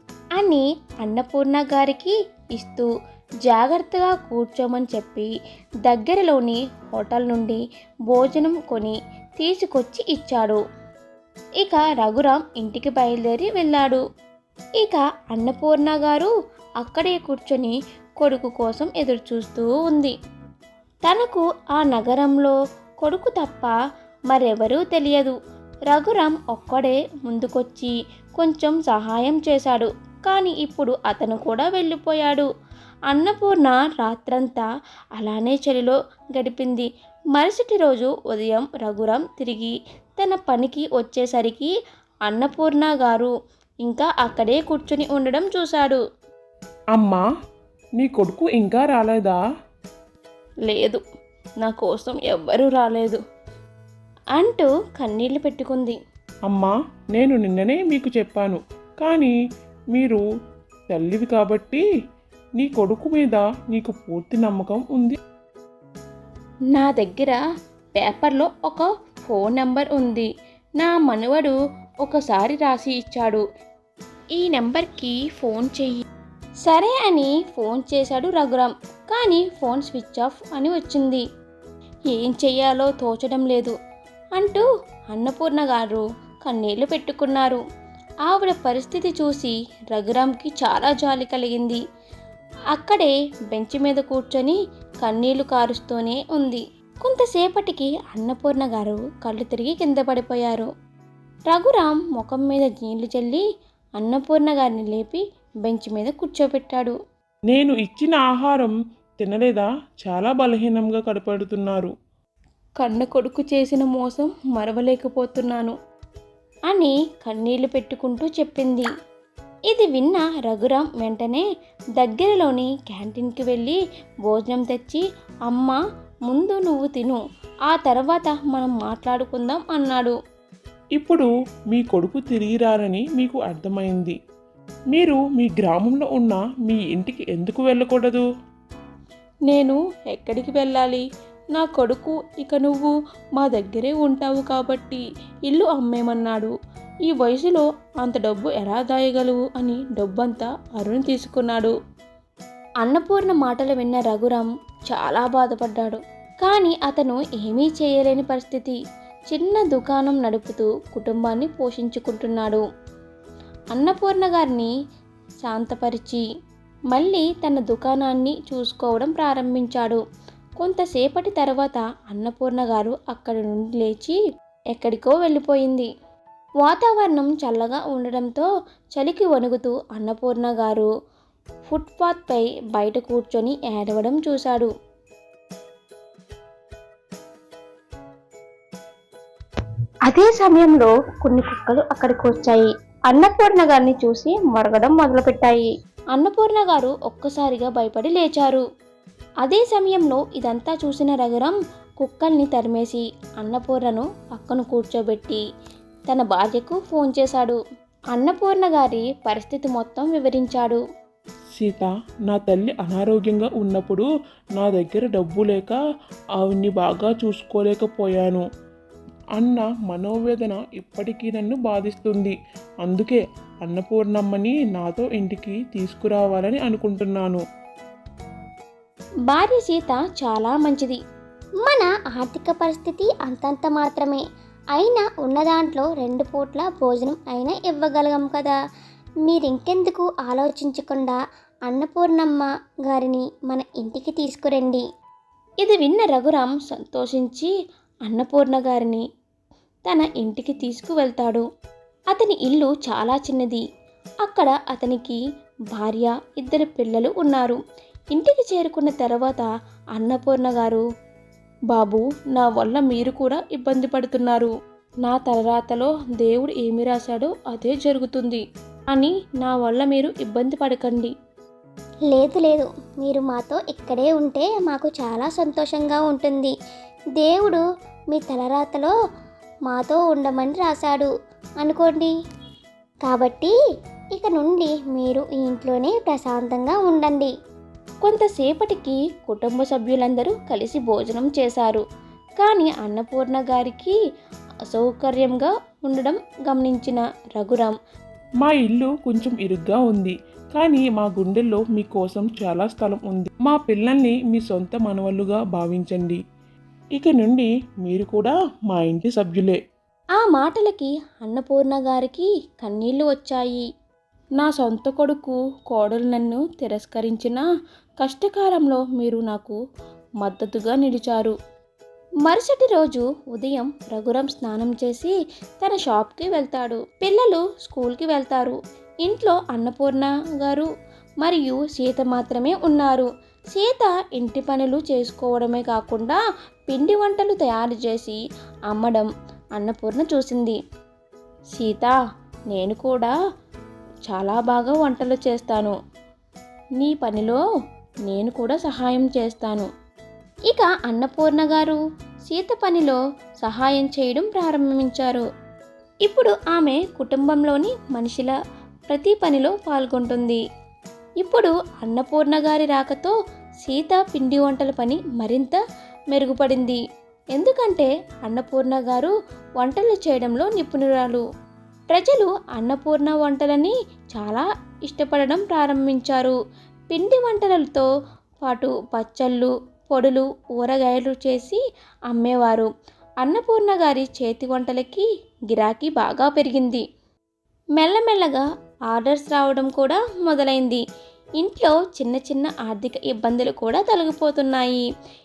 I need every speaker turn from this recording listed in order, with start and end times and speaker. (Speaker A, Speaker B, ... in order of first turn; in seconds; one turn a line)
Speaker A: 0.4-2.9
Speaker A: 3.4-5.3
Speaker A: 5.9-10.6
Speaker A: 11.6-14.0
Speaker A: 14.8-20.1
Speaker A: 21.1-23.7
Speaker A: 24.3-25.4
Speaker A: 25.9-32.5
Speaker A: 33.1-34.6
Speaker A: 35.2-41.7
Speaker A: 42.3-43.3
Speaker A: 43.8-46.0
Speaker B: 46.9-47.2
Speaker B: 48.0-49.4
Speaker A: 50.6-51.0
Speaker A: 51.6-53.2
Speaker A: 54.4-56.0
Speaker B: 56.5-59.3
Speaker B: 59.9-60.2
Speaker B: 60.9-61.8
Speaker B: 62.6-65.1
Speaker A: 66.7-67.4
Speaker A: 68.0-70.3
Speaker A: 70.8-73.4
Speaker A: 74.3-76.0
Speaker A: 76.6-81.2
Speaker A: 82.1-83.7
Speaker A: 84.3-87.6
Speaker A: 88.2-91.8
Speaker A: 92.7-100.7
Speaker A: 101.5-103.4
Speaker A: 104.0-107.0
Speaker B: 107.5-111.9
Speaker A: 112.8-115.7
Speaker A: 116.7-118.9
Speaker A: 119.7-121.4
Speaker A: 122.0-130.2
Speaker B: 131.0-134.2
Speaker B: 134.9-138.2
Speaker A: 139.5-141.0
Speaker A: 141.6-146.5
Speaker A: 147.1-151.7
Speaker A: 152.8-158.8
Speaker A: 159.3-162.6
Speaker A: 163.7-164.7
Speaker A: 165.4-166.2
Speaker A: 166.9-170.0
Speaker A: 170.6-174.2
Speaker A: 174.7-175.9
Speaker A: 176.6-180.9
Speaker A: 181.7-184.7
Speaker A: 190.1-198.6
Speaker A: 199.4-205.4
Speaker A: 206.1-207.6
Speaker A: 208.1-210.8
Speaker B: 211.6-215.8
Speaker B: 216.4-218.4
Speaker B: 219.4-227.4
Speaker A: 229.3-231.0
Speaker C: 231.6-234.2
Speaker C: 234.7-238.5
Speaker C: 239.2-244.8
Speaker A: 245.6-247.5
Speaker A: 248.1-249.0
Speaker A: 249.8-251.4
Speaker A: 252.1-253.6
Speaker A: 254.2-255.2
Speaker A: 255.7-257.6
Speaker A: 258.1-260.8
Speaker A: 261.7-264.5
Speaker A: 265.0-271.1
Speaker C: 272.1-276.5
Speaker C: 277.2-278.9
Speaker C: 279.7-281.1
Speaker C: 281.6-282.1
Speaker C: 283.1-283.5
Speaker C: 284.1-287.3
Speaker A: 288.0-291.8
Speaker A: 292.4-293.9
Speaker A: 294.7-297.8
Speaker B: 298.4-306.2
Speaker B: 306.9-309.6
Speaker A: 310.2-313.6
Speaker A: 314.4-317.4
Speaker A: 318.0-319.6
Speaker A: 320.2-321.3
Speaker A: 322.2-330.7
Speaker A: 331.2-336.2
Speaker A: 336.7-340.6
Speaker A: 341.5-341.9
Speaker A: 342.5-343.1
Speaker A: 344.1-345.8
Speaker A: 346.8-347.4
Speaker A: 348.1-349.7
Speaker A: 350.5-351.8
Speaker A: 352.3-355.2
Speaker A: 356.1-358.3
Speaker A: 358.9-360.4
Speaker A: 361.2-363.1
Speaker A: 363.6-365.6
Speaker A: 366.1-366.8
Speaker A: 367.4-371.2
Speaker A: 371.9-376.4
Speaker A: 376.9-377.9
Speaker A: 378.4-382.7
Speaker A: 383.2-386.8
Speaker A: 387.8-390.8
Speaker A: 391.4-394.8